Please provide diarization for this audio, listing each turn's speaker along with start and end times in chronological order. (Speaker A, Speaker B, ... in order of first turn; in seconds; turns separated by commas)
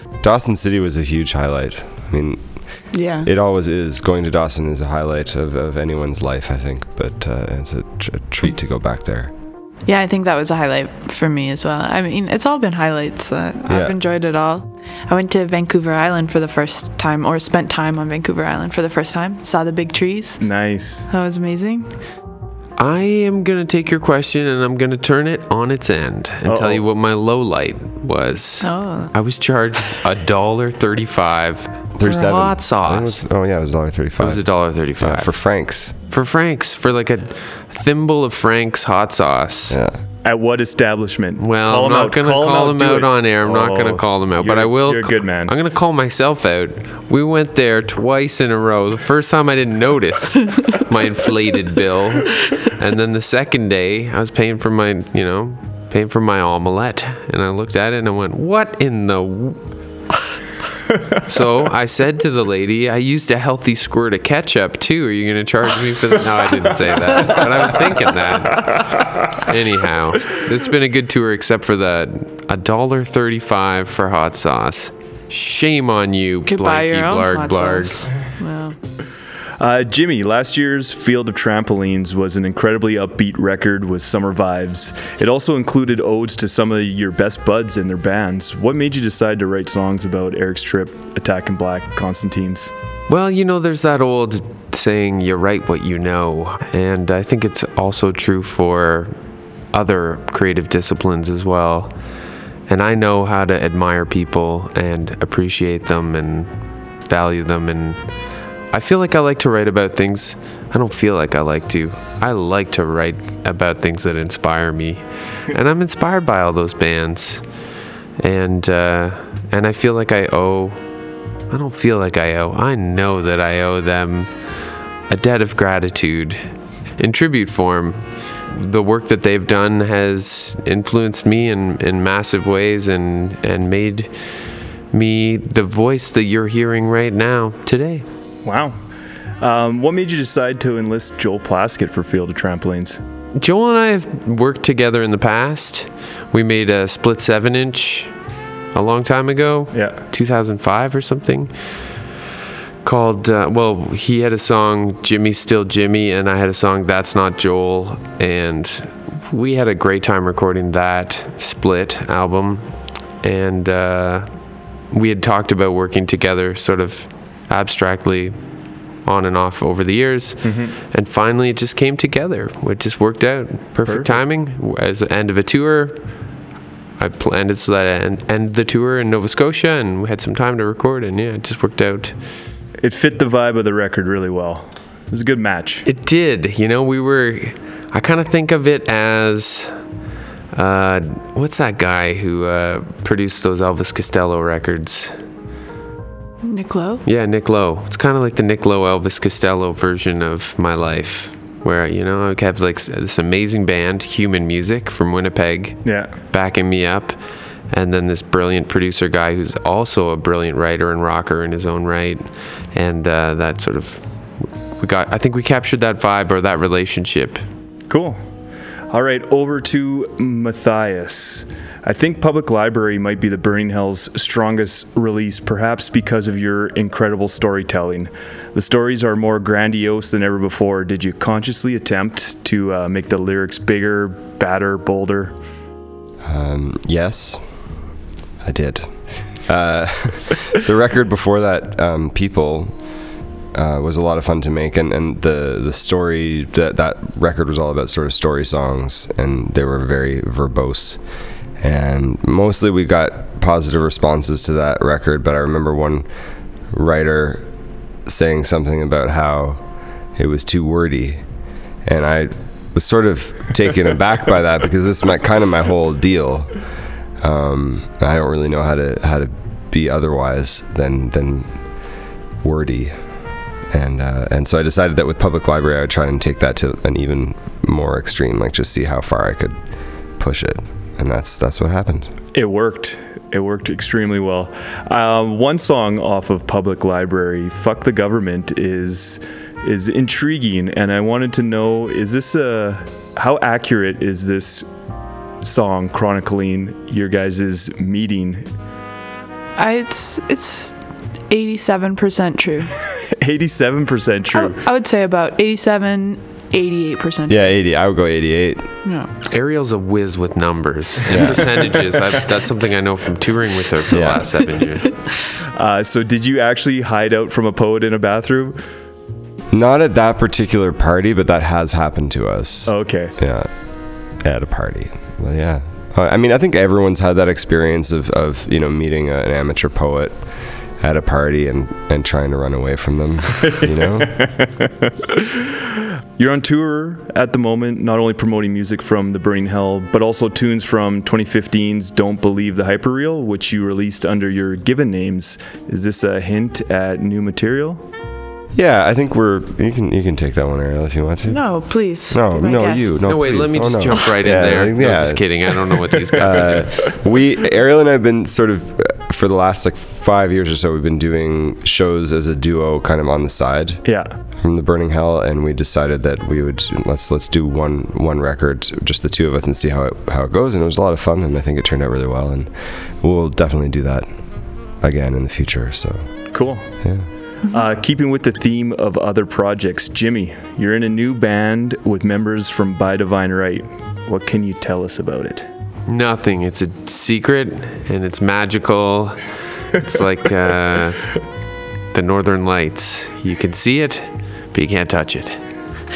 Speaker A: 0.2-2.4, Speaker B: 2.9-3.3, Speaker A: 3.2-9.3, Speaker B: 9.9-20.4, Speaker A: 13.7-13.9, Speaker C: 20.4-21.1, Speaker B: 21.1-21.9, Speaker D: 22.8-33.2, Speaker C: 26.4-26.8, Speaker B: 28.6-29.1, Speaker A: 32.0-34.4, Speaker D: 34.2-35.3, Speaker A: 35.0-36.0, Speaker D: 36.1-39.8, Speaker A: 39.7-40.0, Speaker C: 40.2-45.5, Speaker D: 41.4-59.6, Speaker D: 61.1-78.1, Speaker B: 76.5-78.8, Speaker C: 79.6-92.7, Speaker D: 93.1-99.1, Speaker D: 99.7-101.9, Speaker D: 102.7-106.5, Speaker D: 107.1-108.0, Speaker D: 108.7-117.4, Speaker D: 118.2-120.8, Speaker D: 121.5-124.3, Speaker D: 125.1-126.4, Speaker D: 127.0-134.1, Speaker D: 134.9-138.1, Speaker C: 138.4-138.8, Speaker C: 139.4-143.0, Speaker D: 143.3-148.1, Speaker D: 148.7-151.5, Speaker D: 152.8-162.7, Speaker D: 163.2-164.3, Speaker D: 164.9-168.3, Speaker D: 169.1-176.0, Speaker C: 170.4-170.8, Speaker C: 173.9-174.2, Speaker D: 177.0-182.1, Speaker C: 182.8-185.8, Speaker D: 185.9-189.7, Speaker D: 190.5-195.1, Speaker B: 196.4-197.0, Speaker D: 197.1-207.2, Speaker C: 205.8-206.1, Speaker D: 207.7-217.4, Speaker C: 217.9-218.2, Speaker C: 218.9-235.3, Speaker A: 236.2-237.4, Speaker A: 238.4-238.9, Speaker A: 239.5-242.7, Speaker A: 243.5-251.0, Speaker A: 251.6-256.1, Speaker A: 256.7-257.4, Speaker A: 258.1-259.6, Speaker A: 260.2-261.2, Speaker A: 261.9-266.5, Speaker A: 267.2-271.5, Speaker A: 272.4-272.9, Speaker A: 273.7-279.6, Speaker A: 280.2-282.1, Speaker C: 282.3-294.7, Speaker C: 295.4-298.5, Speaker B: 299.6-300.8, Speaker B: 301.3-302.7, Speaker C: 303.1-304.6, Speaker B: 304.3-307.5, Speaker A: 307.3-308.7, Speaker B: 308.9-309.1, Speaker D: 309.3-315.0, Speaker A: 311.1-311.6, Speaker A: 313.9-314.3, Speaker C: 315.4-318.6, Speaker A: 319.5-323.5, Speaker C: 322.7-323.1, Speaker A: 324.2-330.2, Speaker A: 330.8-334.2, Speaker C: 333.5-347.8, Speaker A: 348.5-351.4, Speaker B: 351.3-353.1, Speaker A: 352.1-355.2, Speaker D: 353.0-356.9, Speaker A: 356.1-363.8, Speaker C: 363.9-364.1, Speaker A: 364.4-372.5, Speaker A: 373.0-374.1, Speaker A: 374.8-376.0, Speaker C: 376.3-376.7, Speaker C: 377.5-385.5, Speaker D: 385.9-391.2, Speaker D: 391.9-395.4